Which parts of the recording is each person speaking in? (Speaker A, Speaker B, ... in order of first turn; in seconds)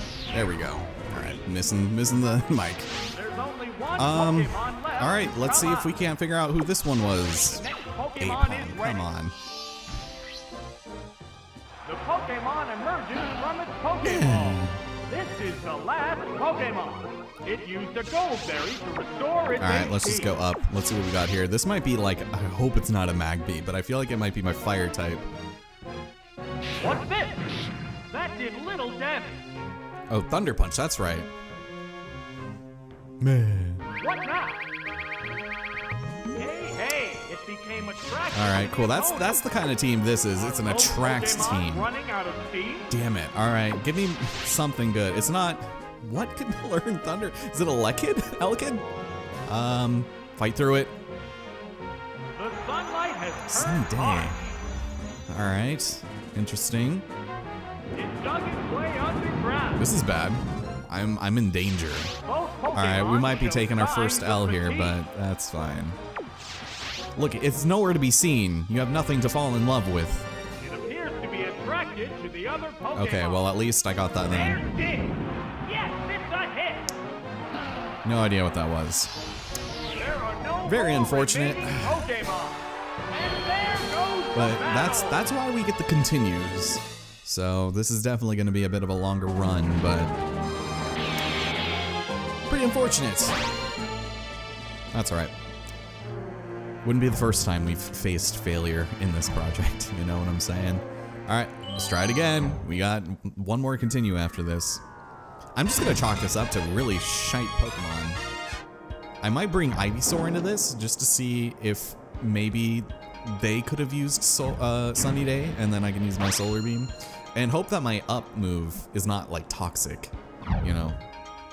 Speaker A: 0.3-2.9, 4.0-7.6, 8.2-9.3, 14.0-14.8, 19.6-25.2, 30.1-31.3, 33.2-33.8, 38.3-41.9, 42.9-48.8, 49.5-51.0, 53.5-54.4, 55.3-57.0, 59.8-62.1, 62.7-66.0, 67.2-70.3, 72.9-74.7, 78.0-79.1, 80.7-82.1, 84.3-90.2, 92.5-93.4, 94.9-95.3, 96.8-104.8, 105.5-108.2, 109.2-121.0
Speaker B: 3.1-5.9, 7.5-9.1, 11.8-20.4, 26.8-27.4, 28.1-29.4, 34.0-34.6, 36.3-39.6, 40.3-42.9, 52.3-54.5, 57.9-59.9, 62.2-65.0, 70.6-73.5, 74.3-76.9, 79.9-85.2